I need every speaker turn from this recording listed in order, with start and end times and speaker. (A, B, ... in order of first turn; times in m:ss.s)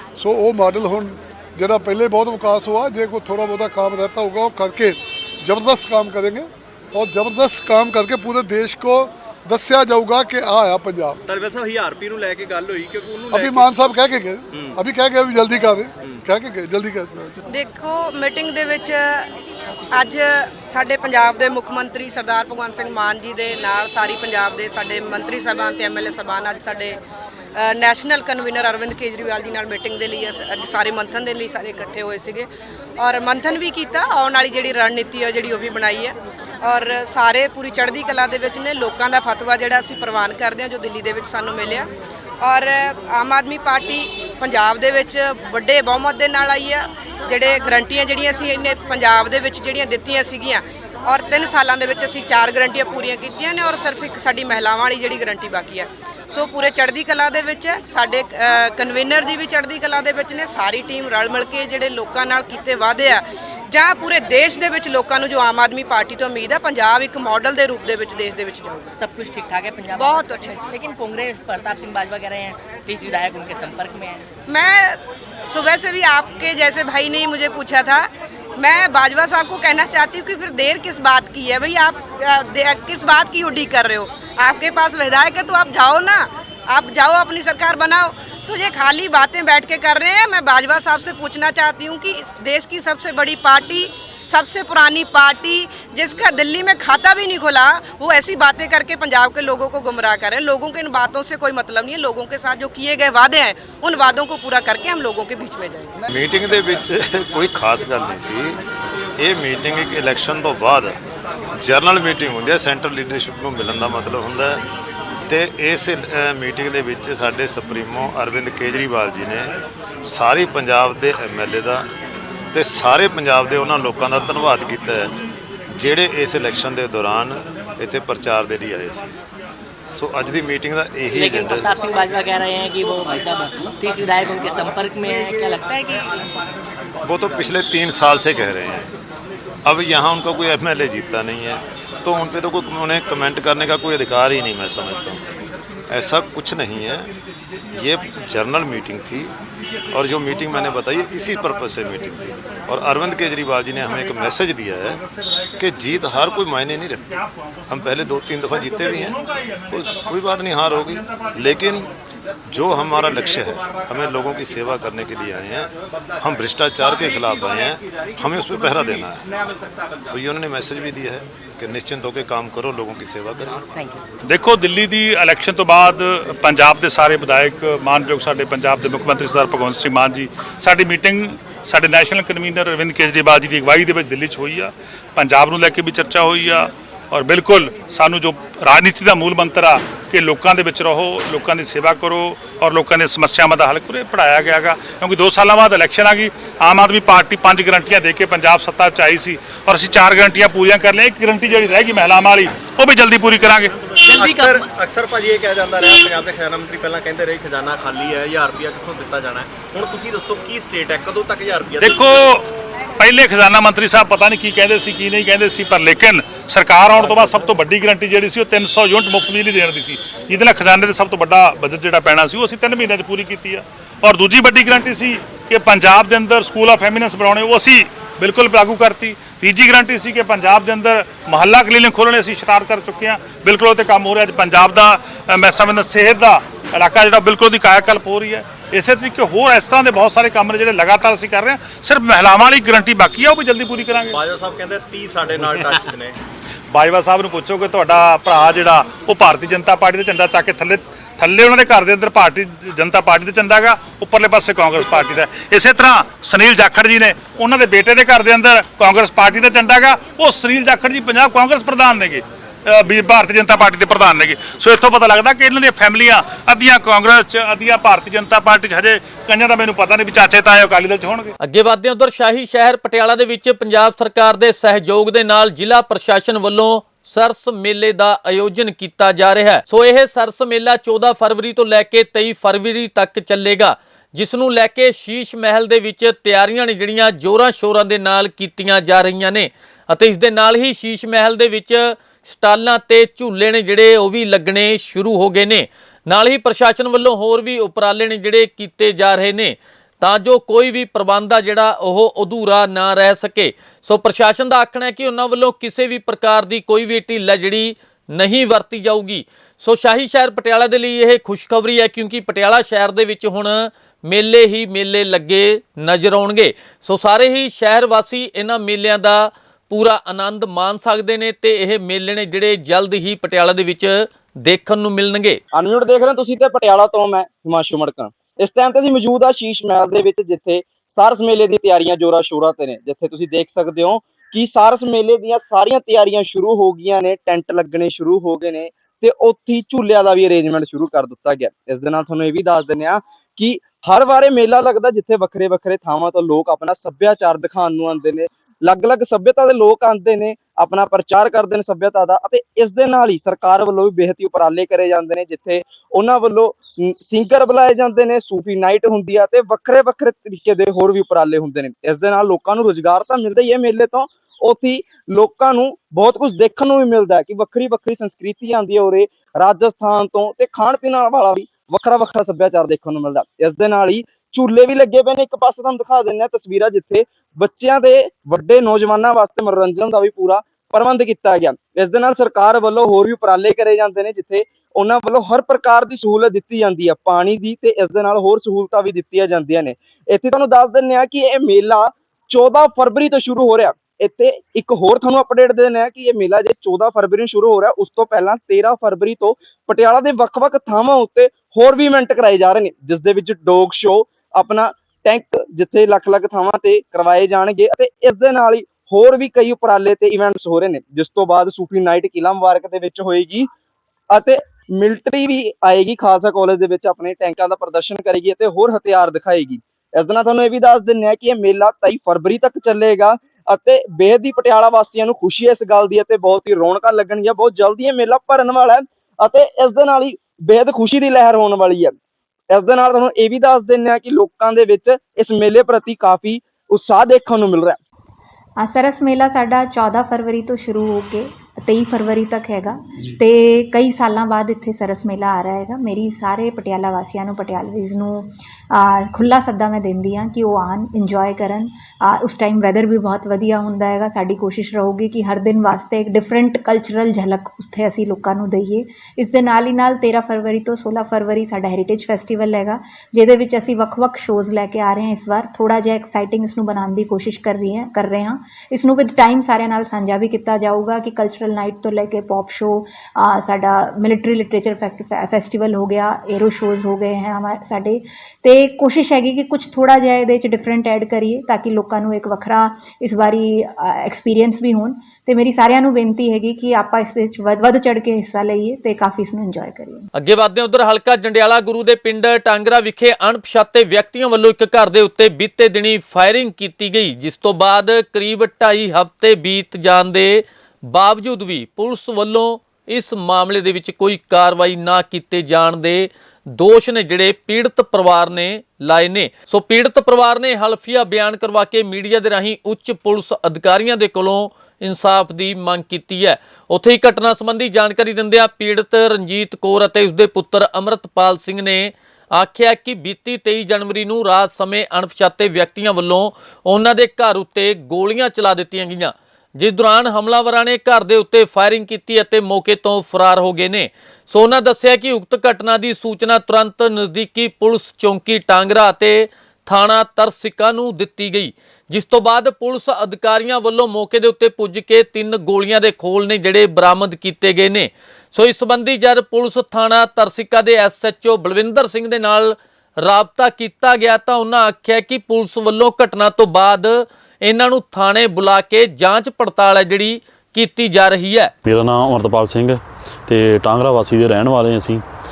0:00.2-0:11.2 A
0:11.3-0:13.7 B
0:13.3-0:17.4 A
0:14.5-0:14.8 B
0:16.0-0:16.3 B
0:17.5-0:19.3 C
0:19.9-0:27.0 C
0:27.6-0:41.9 C
0:42.4-1:08.9 C
1:09.0-1:14.2 D
1:10.0-1:10.6 C
1:14.5-1:46.0 C
1:46.1-1:48.6 E
1:49.2-1:51.0 E
1:51.6-1:54.6 E
1:55.3-2:01.9 E
2:02.5-2:05.2 E
2:05.7-2:09.2 E
2:09.9-2:11.7 E
2:11.1-2:16.1 D
2:17.0-2:18.9 E
2:19.6-2:25.2 E
2:25.9-2:27.1 E
2:27.7-2:29.3 E
2:29.9-2:35.0 E
2:35.6-2:41.9 E
2:42.5-2:49.3 E
2:50.1-2:53.6 E
2:53.8-2:54.0 D
2:54.3-3:23.7 F
3:23.9-3:32.2 B
3:24.0-3:24.7 D
3:31.8-3:32.4 F
3:33.0-4:04.2 F
3:37.0-3:37.4 B
4:04.1-4:06.2 B
4:06.7-4:31.3 F
4:31.4-5:25.4 G
5:25.5-6:53.5 H
6:54.1-7:12.0 H
7:12.5-7:17.8 H
7:18.6-8:10.1 I
8:10.2-9:21.5 G
9:21.6-9:25.0 J